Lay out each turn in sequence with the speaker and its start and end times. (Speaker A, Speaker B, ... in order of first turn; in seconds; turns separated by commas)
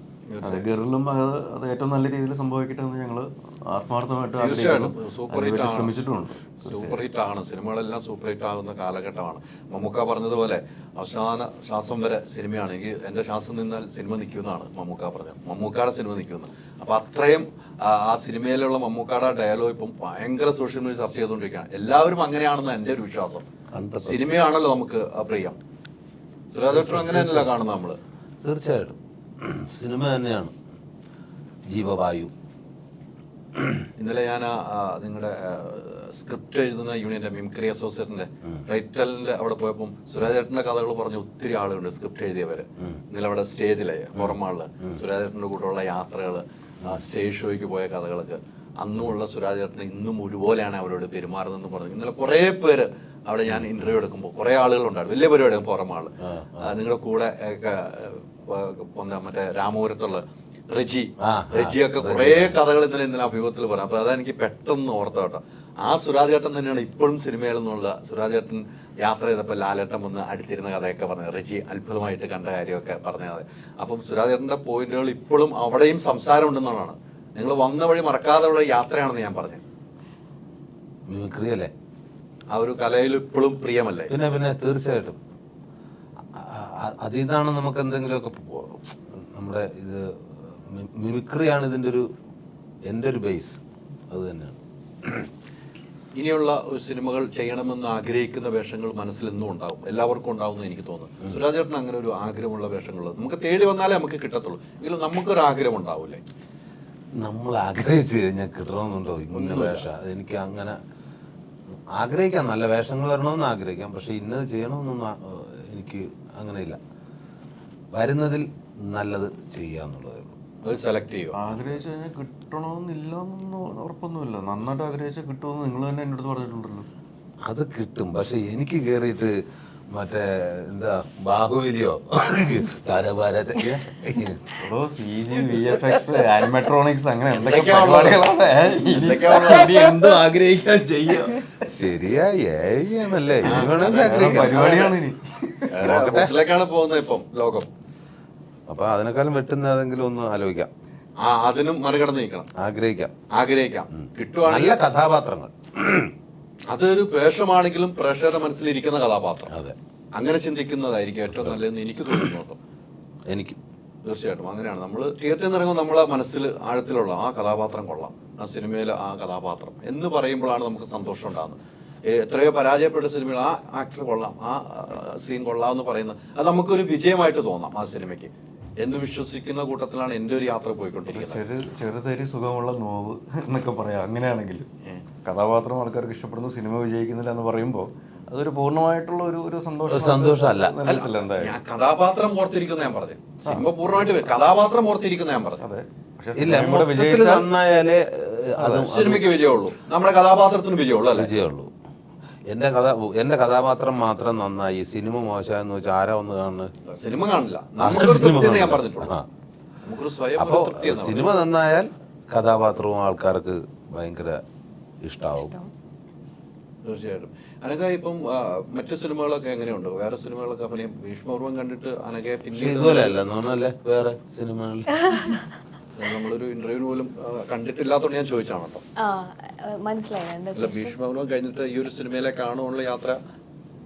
Speaker A: 0.3-0.6, Speaker B: 0.4-7.0, Speaker A: 4.4-5.9, Speaker A: 6.7-23.4, Speaker C: 23.7-24.3, Speaker A: 24.0-25.6, Speaker A: 26.5-28.0, Speaker C: 26.7-27.5, Speaker C: 28.4-30.5, Speaker C: 31.7-32.3, Speaker C: 33.6-33.8, Speaker A: 34.0-79.6, Speaker C: 44.2-45.0, Speaker C: 56.2-56.8, Speaker C: 61.2-62.6, Speaker C: 81.1-81.7, Speaker A: 82.5-84.1, Speaker C: 84.1-85.2, Speaker C: 86.3-92.1, Speaker C: 92.9-93.6, Speaker C: 94.1-95.3, Speaker A: 96.1-106.2, Speaker C: 107.2-110.8, Speaker A: 109.3-109.8, Speaker C: 111.9-116.8, Speaker C: 117.9-120.4, Speaker A: 120.6-121.4, Speaker B: 121.3-126.9, Speaker C: 127.4-129.4, Speaker C: 129.9-134.4, Speaker B: 134.6-141.5, Speaker A: 137.3-138.3, Speaker A: 138.8-140.1, Speaker C: 141.7-144.7, Speaker A: 143.4-145.0, Speaker B: 143.6-145.7, Speaker A: 145.7-147.7, Speaker C: 145.8-146.3, Speaker C: 148.7-150.7, Speaker A: 151.2-152.5, Speaker C: 152.5-153.1, Speaker A: 153.3-154.8, Speaker C: 153.9-156.1, Speaker A: 156.7-159.5, Speaker C: 159.5-159.8, Speaker A: 160.2-162.6, Speaker C: 161.3-161.6, Speaker C: 163.3-163.6, Speaker A: 164.0-181.4, Speaker B: 181.1-184.7, Speaker B: 185.2-191.5, Speaker C: 189.9-190.8, Speaker A: 190.9-195.6, Speaker B: 195.6-197.5, Speaker C: 196.4-199.3, Speaker B: 198.6-198.9, Speaker A: 198.9-201.3, Speaker C: 201.1-201.7, Speaker C: 202.5-206.7, Speaker A: 206.8-209.2, Speaker C: 207.8-209.2, Speaker A: 209.8-211.4, Speaker C: 210.4-214.4, Speaker C: 215.0-215.5, Speaker D: 215.3-215.7, Speaker A: 216.8-223.2, Speaker C: 222.5-224.9, Speaker D: 225.0-225.5, Speaker A: 226.0-228.8, Speaker D: 229.0-230.9, Speaker A: 230.6-233.2